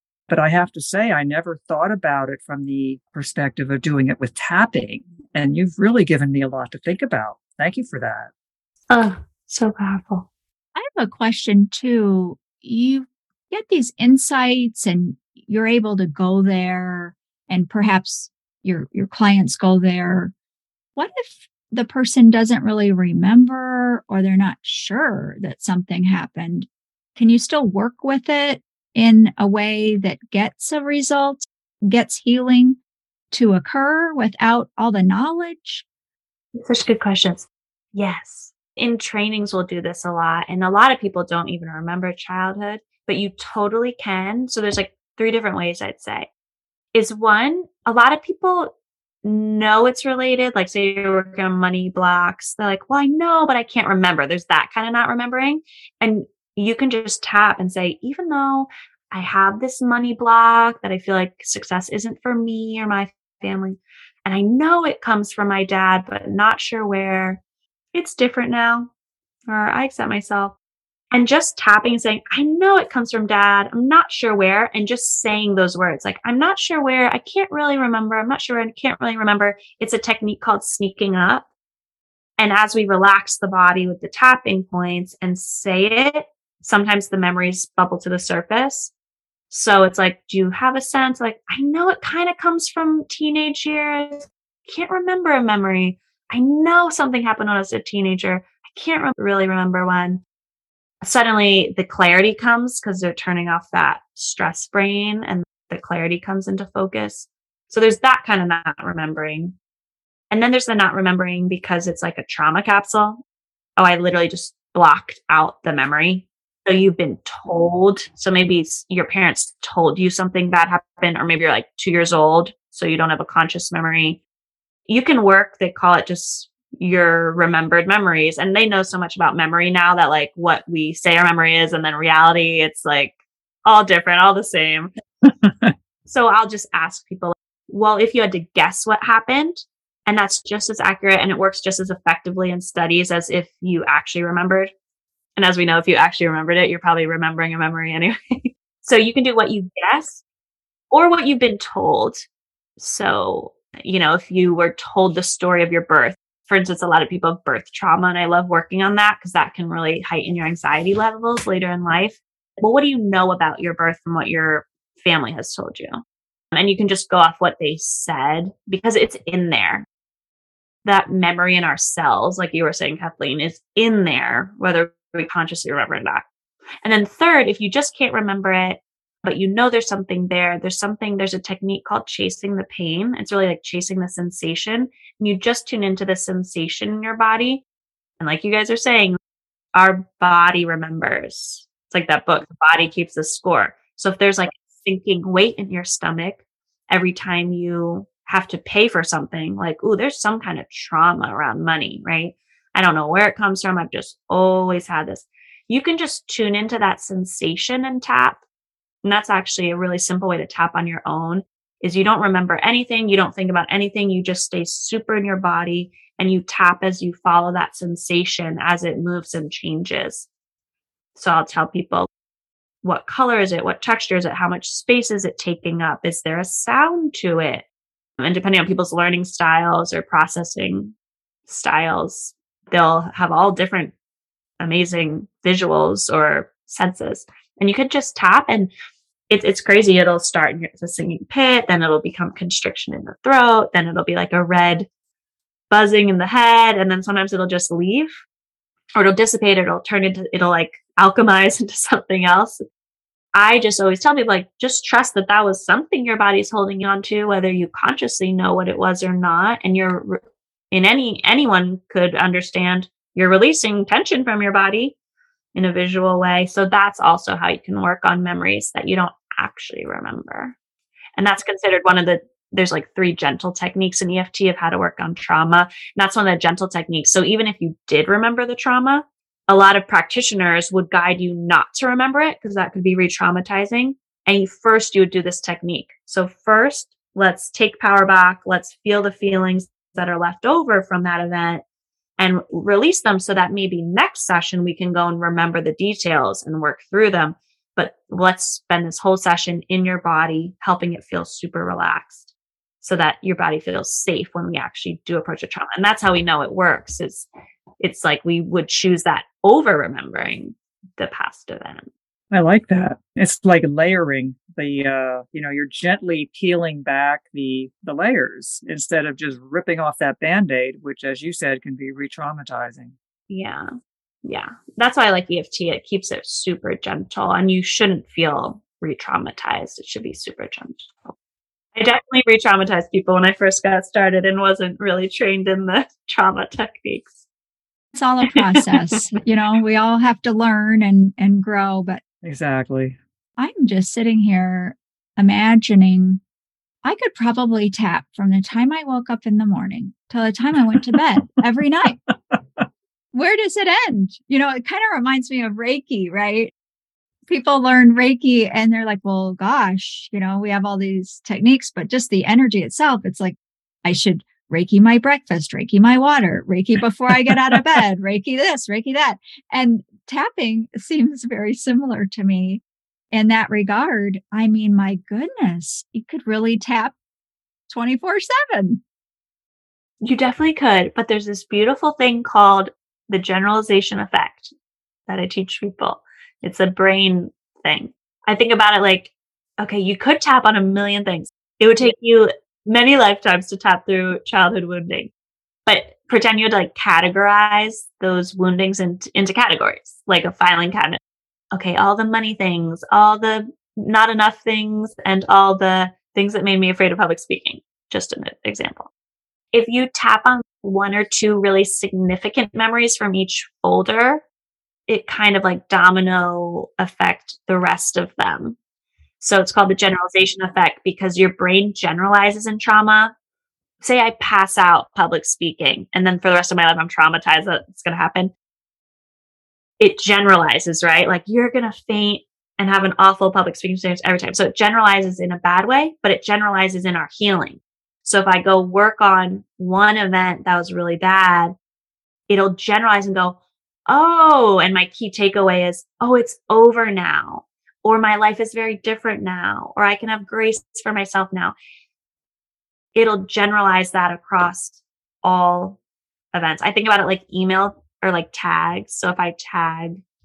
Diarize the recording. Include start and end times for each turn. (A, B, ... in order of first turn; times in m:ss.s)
0:00.3-0:08.3 A
0:08.9-0:10.3 B
0:10.8-0:20.3 C
0:21.0-0:32.8 C
0:33.3-0:35.9 C
0:36.6-0:46.3 B
0:46.9-1:07.4 B
1:07.9-1:08.9 B
1:09.5-1:10.6 B
1:11.1-1:21.5 B
1:22.4-1:28.9 B
1:29.5-1:40.2 B
1:41.0-1:49.6 B
1:50.3-1:53.2 B
1:53.8-2:04.2 B
2:04.9-2:14.9 B
2:15.4-2:15.7 A
2:16.0-2:24.7 B
2:25.4-2:30.2 B
2:30.9-2:32.2 B
2:32.8-2:46.0 B
2:46.5-2:49.9 B
2:50.8-2:56.3 B
2:56.8-3:07.6 B
3:08.2-3:09.2 B
3:09.7-3:28.4 B
3:29.0-3:40.3 B
3:41.2-3:42.1 B
3:42.8-3:47.6 B
3:48.2-3:50.9 B
3:51.5-3:53.9 B
3:54.6-3:58.7 B
3:59.3-4:04.9 B
4:05.7-4:08.1 B
4:09.0-4:12.6 B
4:13.3-4:25.0 B
4:25.6-4:30.6 B
4:31.2-4:51.6 B
4:52.2-5:02.3 B
5:02.8-5:07.3 B
5:07.8-5:11.9 B
5:12.3-5:22.9 A
5:23.3-5:23.7 B
5:24.2-5:31.1 B
5:31.7-5:37.2 B
5:37.9-5:42.0 C
5:38.5-5:39.0 B
5:42.2-5:43.0 A
5:43.4-5:46.2 C
5:46.8-5:52.0 C
5:52.1-5:52.7 A
5:53.1-5:56.5 C
5:57.3-6:17.0 C
6:07.1-6:07.8 A
6:17.7-6:18.8 C
6:20.0-6:24.5 B
6:25.1-6:35.1 B
6:35.7-6:41.0 B
6:41.5-6:48.9 B
6:49.5-6:54.2 B
6:54.9-6:58.6 B
6:59.2-7:03.1 B
7:03.8-7:08.3 B
7:09.8-7:21.6 B
7:22.3-7:31.6 B
7:33.0-7:35.8 B
7:36.3-7:40.0 B